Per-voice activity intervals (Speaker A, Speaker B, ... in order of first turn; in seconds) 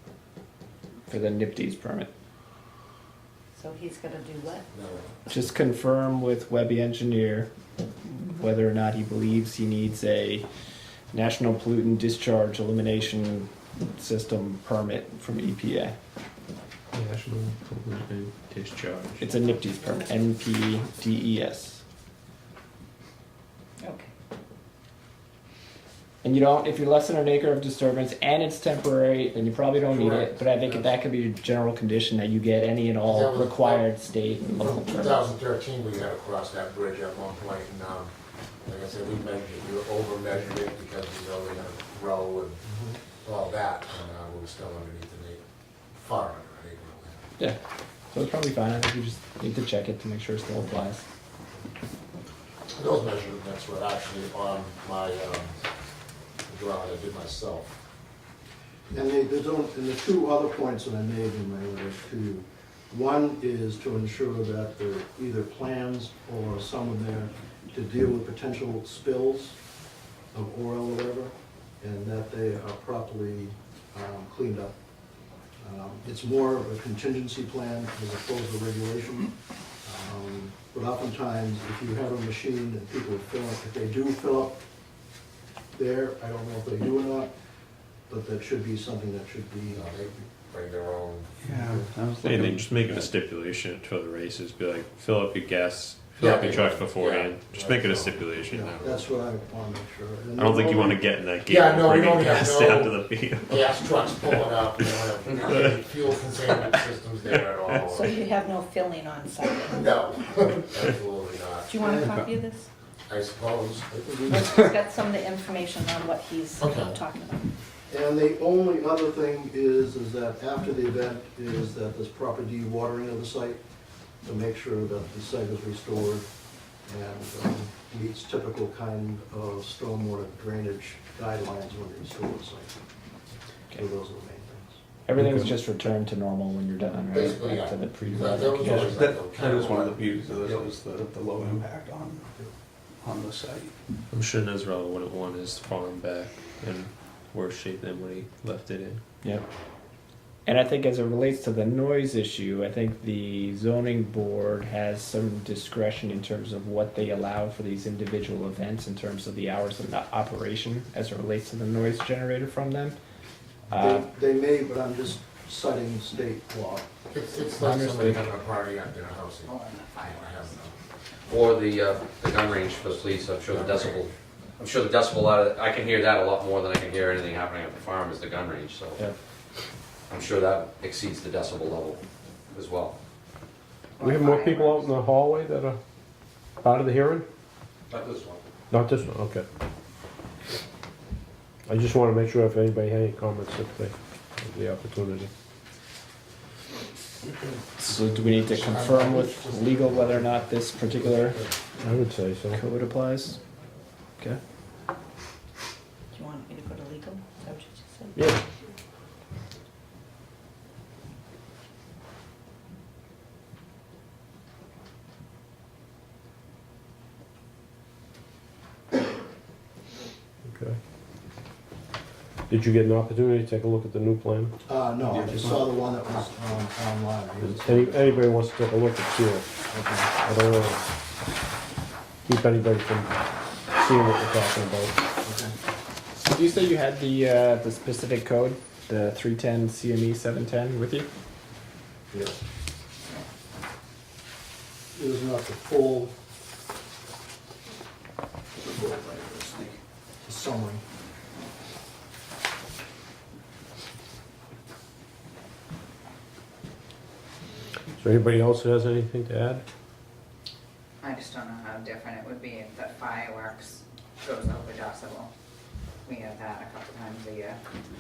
Speaker A: 1.1-2.1, 5.3-7.5, 8.1-10.5, 11.1-15.9, 19.2-21.8, 26.2-35.2, 48.1-51.0, 135.1-138.9, 149.2-149.5, 150.5-163.0, 163.7-164.1, 167.6-168.3, 197.8-201.5, 202.5-203.4, 236.1-241.1
Speaker B: 3.6-4.7, 19.4-20.1, 23.8-24.1, 107.9-110.0, 111.7-112.7, 114.3-117.5, 206.1-208.2
Speaker C: 4.7-5.1, 29.9-30.9, 33.0-33.9, 34.6-38.1, 38.7-42.7, 43.2-45.4, 46.0-47.2, 52.7-55.6, 56.5-57.7, 89.7-91.3, 96.2-98.8, 101.4-108.2, 109.6-111.7, 113.1-114.3, 116.6-117.0, 137.1-140.7, 167.1-170.7, 173.5-173.9, 197.9-201.5
Speaker D: 16.9-19.3, 92.2-99.0, 100.4-104.5, 105.5-105.8, 106.5-106.8, 107.6-107.9, 144.1-149.0
Speaker E: 58.9-69.6, 70.3-74.7, 75.6-84.6, 85.7-87.3, 88.1-89.9, 91.5-91.9, 98.5-101.1, 111.8-112.2, 114.3-114.6, 117.9-123.6, 124.2-126.3, 126.9-132.7, 133.7-134.8, 163.8-166.9, 224.6-228.3, 229.7-230.2, 235.2-235.5, 242.1-242.4, 244.9-246.1, 248.7-249.6, 250.2-250.8
Speaker F: 91.4-93.1, 138.7-142.3, 143.0-143.7, 225.1-225.7
Speaker G: 169.4-170.7, 184.0-185.1, 261.0-265.3, 266.1-267.6
Speaker H: 171.3-179.1, 180.1-183.0, 187.9-188.4
Speaker I: 184.0-185.8, 186.6-187.3, 188.7-189.5, 191.7-195.3, 201.8-202.6, 208.2-208.4, 220.4-220.8, 222.5-224.6, 227.4-229.5, 230.2-230.9, 232.3-233.1, 233.7-235.0, 258.0-259.6